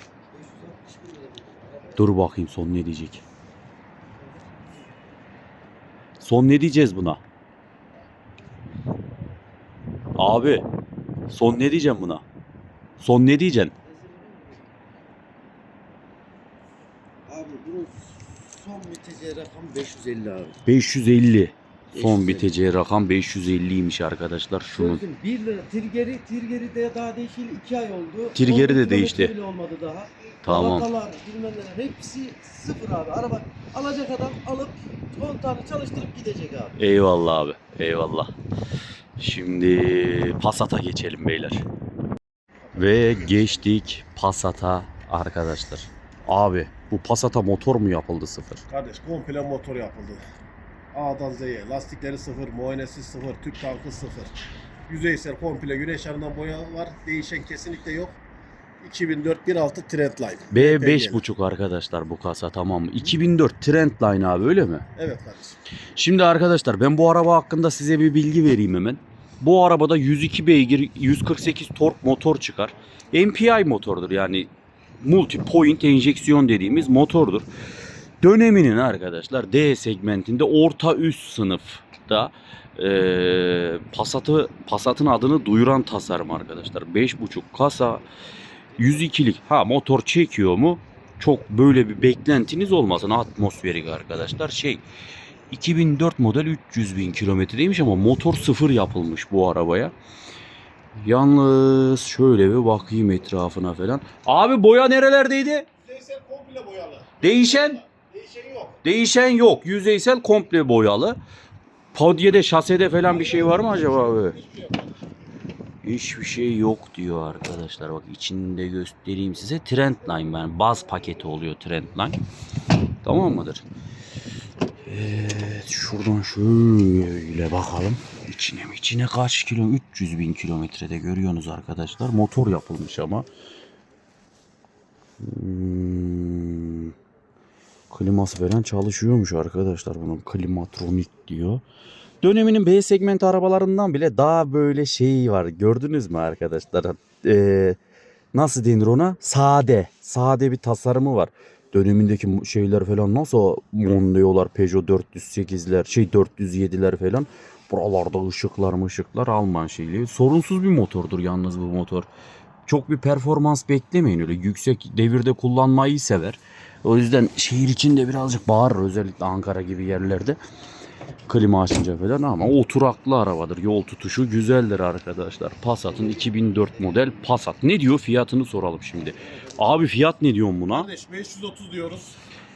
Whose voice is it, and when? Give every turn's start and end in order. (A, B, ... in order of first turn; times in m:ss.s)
0:00.3-0:02.0 A
0:02.0-0:03.2 B
0:04.4-0:04.7 A
0:06.2-0:07.2 B
0:10.2-0:10.6 B
0:11.3-0:12.2 B
0:13.0-0:13.7 B
0:13.8-0:14.7 A
0:17.3-0:20.6 A
0:20.6-0:25.0 B
0:21.9-0:22.5 A
0:24.7-0:36.8 A
0:28.3-0:29.3 B
0:30.4-0:30.9 B
0:36.8-0:38.3 B
0:39.2-0:41.6 B
0:42.7-0:43.5 C
0:42.7-0:48.6 B
0:48.7-0:50.2 C
0:50.9-0:54.3 C
0:54.9-0:58.2 C
0:58.8-1:01.2 C
1:00.5-1:04.8 B
1:05.0-1:05.6 C
1:06.0-1:14.5 B
1:15.0-1:17.5 B
1:18.2-1:28.0 B
1:28.8-1:34.8 B
1:35.5-1:39.9 B
1:40.9-1:45.7 B
1:45.8-1:48.8 C
1:47.2-1:47.8 B
1:48.8-1:51.2 B
1:51.9-1:54.4 B
1:53.0-1:54.9 C
1:55.8-2:02.2 B
2:03.0-2:03.6 B
2:04.8-2:13.3 B
2:15.2-2:16.9 B
2:17.9-2:21.6 B
2:22.2-2:27.8 B
2:28.3-2:42.1 B
2:42.7-2:50.4 B
2:51.3-3:00.9 B
3:00.7-3:02.2 C